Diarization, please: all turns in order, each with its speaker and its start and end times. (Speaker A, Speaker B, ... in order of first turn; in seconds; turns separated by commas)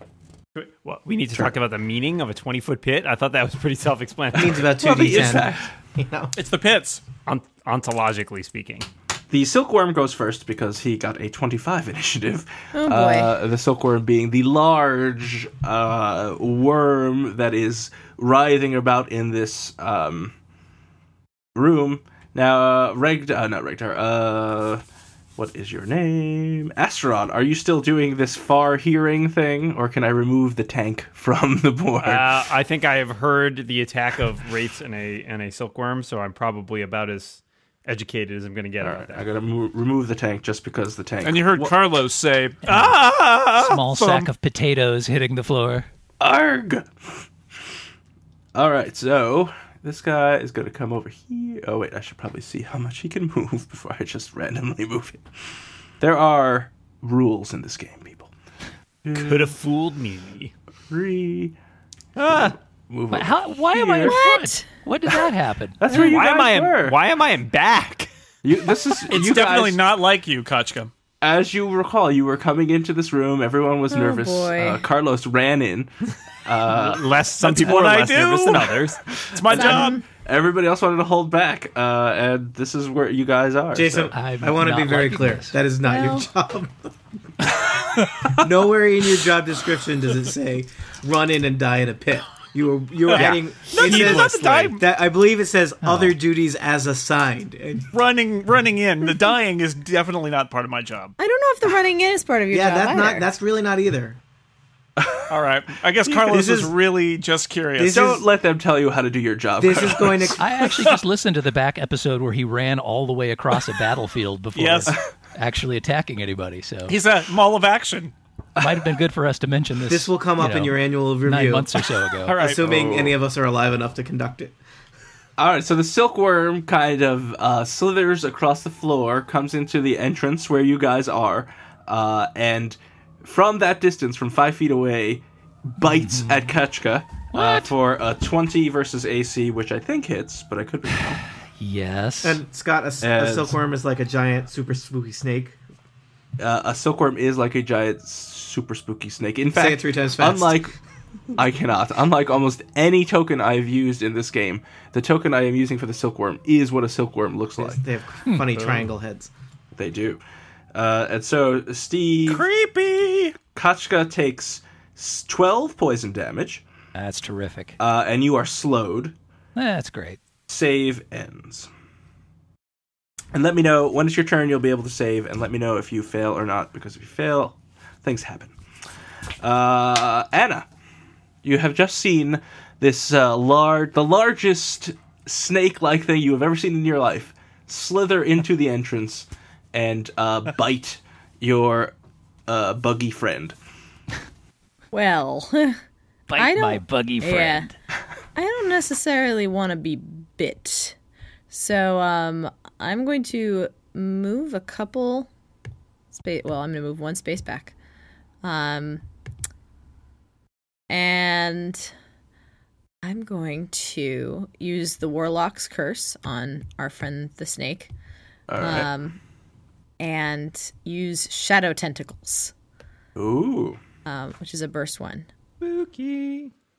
Speaker A: 0.6-4.7, Speaker B: 4.3-6.3, Speaker C: 4.7-5.7, Speaker D: 6.4-7.0, Speaker A: 7.3-8.9, Speaker C: 9.3-20.3, Speaker E: 12.7-13.4, Speaker C: 21.6-24.8, Speaker C: 25.4-32.3, Speaker A: 32.0-39.2, Speaker C: 38.8-41.7, Speaker D: 41.2-44.3, Speaker F: 42.6-43.0, Speaker F: 43.5-45.9, Speaker C: 46.2-47.1, Speaker C: 48.5-55.2, Speaker C: 56.0-58.3, Speaker C: 59.0-59.5, Speaker A: 59.1-60.5, Speaker C: 60.9-61.5, Speaker A: 62.2-62.6, Speaker C: 62.3-64.2, Speaker F: 63.1-65.8, Speaker E: 64.0-64.8, Speaker C: 65.8-67.0, Speaker A: 65.9-68.1, Speaker C: 68.4-69.8, Speaker D: 69.1-70.9, Speaker C: 71.2-75.9, Speaker E: 73.9-74.8, Speaker C: 76.4-78.1, Speaker A: 76.7-79.0, Speaker D: 77.4-78.8, Speaker C: 79.1-84.1, Speaker D: 79.3-80.0, Speaker E: 79.5-80.0, Speaker B: 83.7-86.9, Speaker F: 84.1-85.6, Speaker E: 85.8-86.3, Speaker B: 88.2-97.9, Speaker D: 93.1-94.8, Speaker A: 93.1-94.7, Speaker D: 97.9-101.1, Speaker E: 101.2-103.2, Speaker B: 102.5-104.2, Speaker C: 105.0-105.2, Speaker D: 105.3-108.0, Speaker B: 106.1-106.7, Speaker B: 107.8-108.2, Speaker C: 107.9-110.4, Speaker B: 109.6-110.5, Speaker F: 110.4-117.0, Speaker D: 110.7-111.0, Speaker D: 114.5-115.0, Speaker D: 116.9-118.1, Speaker F: 118.6-122.3, Speaker C: 118.6-118.8, Speaker B: 119.9-124.6, Speaker D: 122.2-122.7, Speaker C: 122.6-123.1, Speaker C: 125.4-141.2, Speaker F: 135.9-136.3, Speaker F: 137.3-137.7, Speaker F: 141.6-142.4, Speaker B: 142.2-145.6, Speaker C: 143.0-143.6, Speaker C: 146.4-150.7, Speaker B: 149.5-150.7, Speaker C: 151.3-157.8, Speaker B: 157.6-159.3, Speaker C: 159.8-160.2, Speaker C: 160.7-162.4, Speaker D: 162.3-163.4, Speaker C: 163.5-166.6, Speaker F: 166.9-167.8, Speaker C: 167.8-169.2, Speaker F: 169.6-170.2, Speaker C: 170.5-171.7, Speaker C: 173.3-178.5, Speaker C: 179.4-180.7, Speaker C: 181.4-191.9, Speaker C: 192.5-193.6, Speaker E: 194.9-195.8, Speaker F: 196.3-197.7, Speaker E: 196.4-197.7, Speaker E: 198.3-201.0, Speaker E: 201.5-205.3, Speaker E: 206.1-207.7, Speaker E: 208.4-209.0, Speaker E: 210.9-211.9, Speaker E: 213.0-217.9, Speaker C: 218.5-218.9, Speaker E: 218.6-219.2, Speaker E: 220.0-222.5, Speaker C: 223.2-223.8, Speaker E: 224.1-225.3, Speaker A: 225.6-226.5